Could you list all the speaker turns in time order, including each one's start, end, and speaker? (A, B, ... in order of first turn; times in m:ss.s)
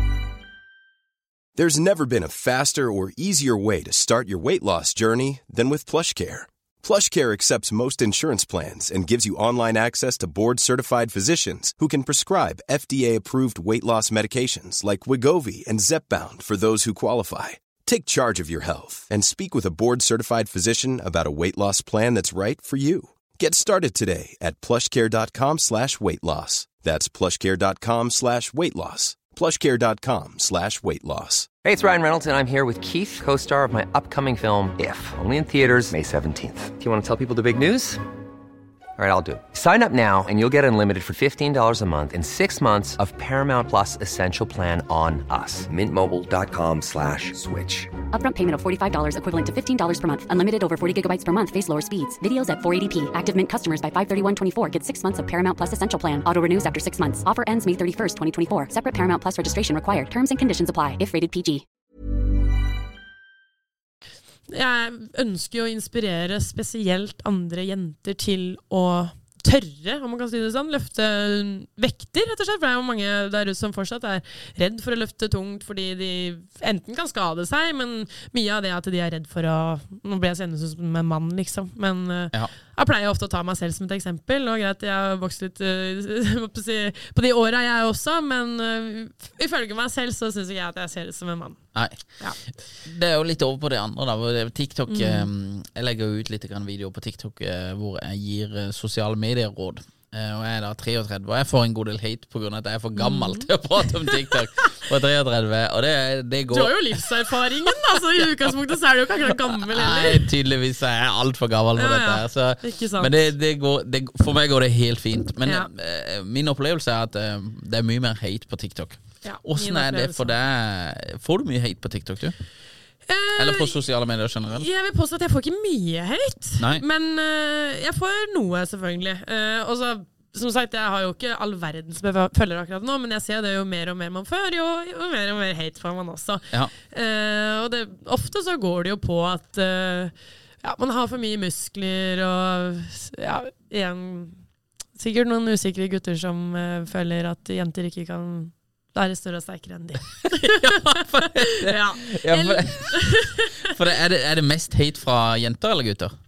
0:01.6-0:31.5 A
0:31.6-0:38.0 B
0:39.0-0:48.0 B
0:48.1-1:01.6 C
1:04.5-1:32.4 D
1:31.7-1:46.9 E
1:34.9-1:35.3 D
1:43.0-1:44.6 D
1:46.5-1:50.2 D
1:49.7-2:02.4 E
1:51.8-1:53.1 D
1:55.4-1:55.7 D
1:59.2-2:00.3 D
2:03.1-2:03.7 D
2:03.4-2:04.7 E
2:04.5-2:24.4 D
2:06.6-2:06.8 E
2:25.0-2:33.7 D
2:30.2-2:36.1 E